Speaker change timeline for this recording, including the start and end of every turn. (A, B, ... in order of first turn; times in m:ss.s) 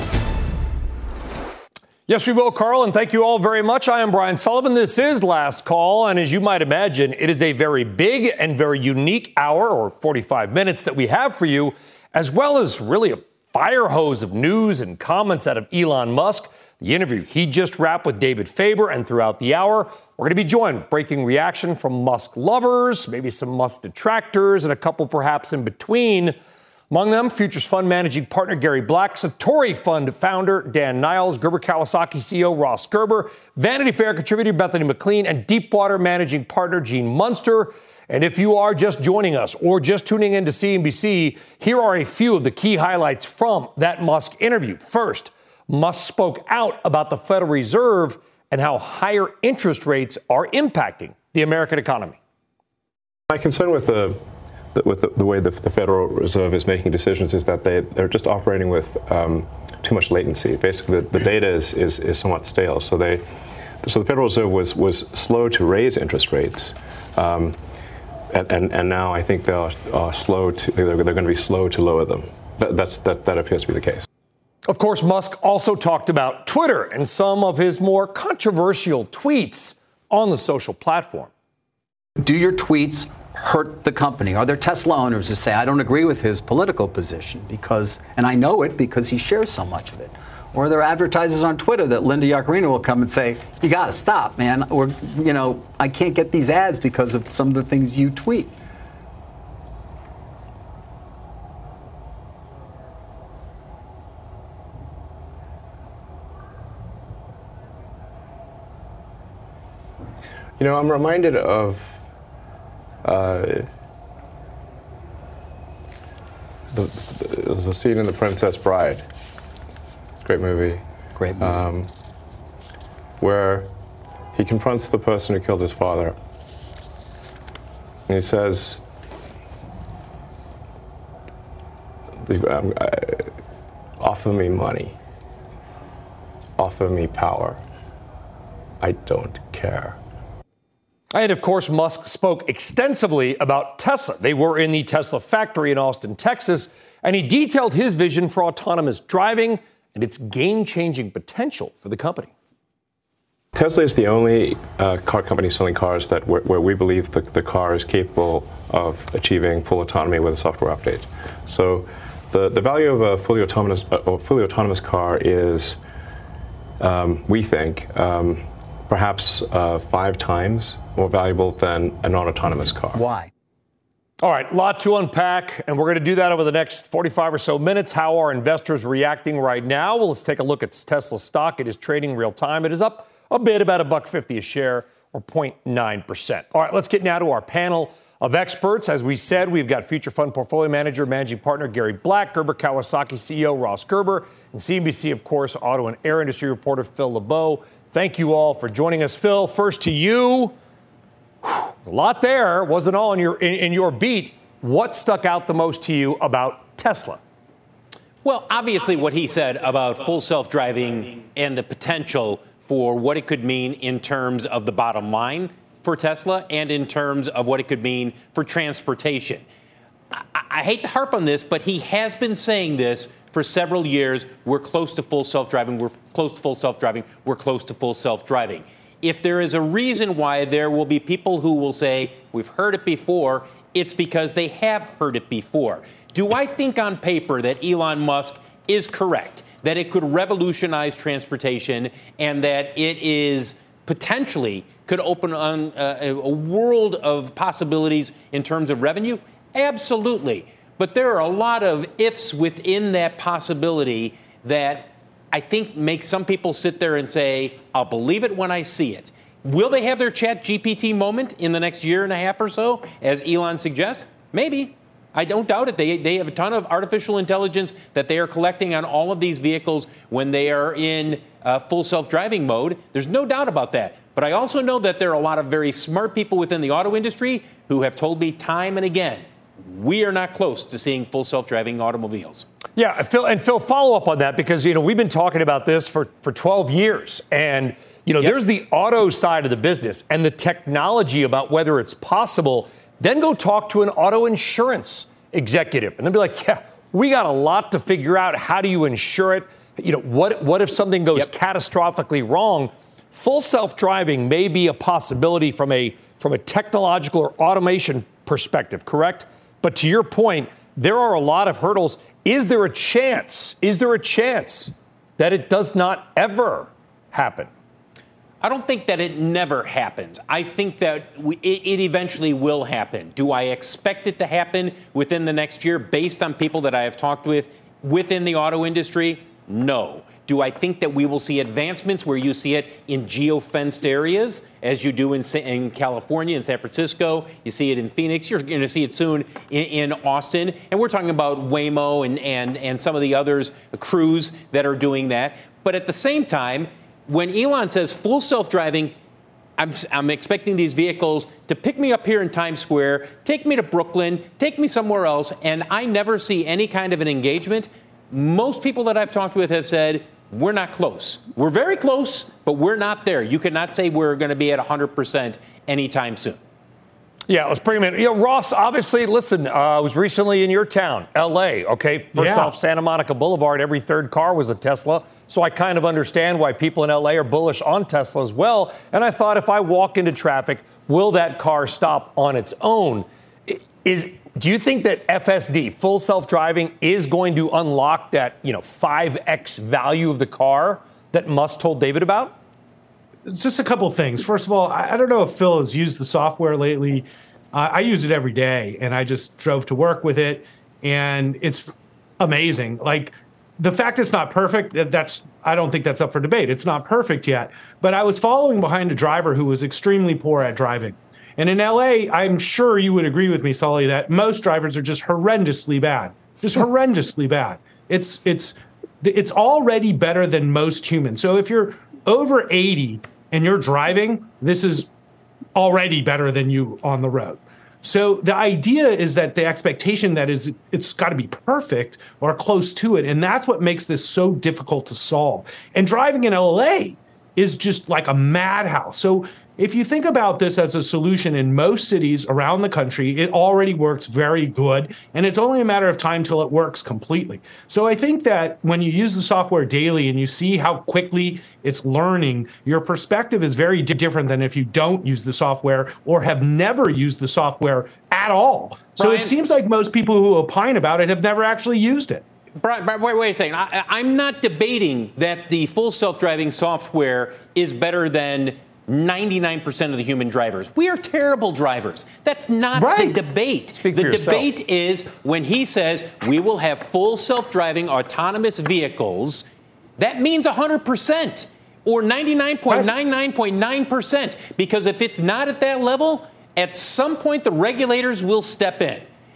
0:02.1-0:26.3 A
0:26.9-0:52.2 A
0:53.3-0:54.2 B
0:54.7-1:03.2 B
1:03.8-1:07.6 B
1:08.3-1:14.0 B
1:14.7-1:21.3 A
1:22.2-1:38.6 C
1:50.6-1:52.0 B
1:53.0-1:53.7 B
1:56.7-1:59.0 B
2:00.2-2:00.8 B
2:01.2-2:01.6 C
2:01.4-2:01.9 B
2:03.2-2:03.7 B
2:04.3-2:06.2 B
2:08.1-2:08.8 B
2:12.2-2:13.3 B
2:14.0-2:15.0 B
2:16.6-2:17.6 B
2:18.8-2:20.0 B
2:21.1-2:32.3 A
2:33.5-2:45.8 B
2:46.8-2:53.0 B
2:52.9-2:53.3 C
2:54.2-3:20.5 A
3:21.4-3:27.2 A
3:28.2-3:39.4 D
3:40.1-4:42.5 D
4:42.8-5:17.5 A
5:18.4-5:48.9 D
5:49.6-6:06.4 D
6:07.3-6:32.4 A
6:12.1-6:12.5 E
6:33.3-7:04.9 E
7:05.5-7:42.2 E
7:39.0-7:39.4 D
7:42.6-7:59.4 D
7:52.7-7:53.2 E
7:53.8-7:54.5 A
8:00.0-8:09.1 D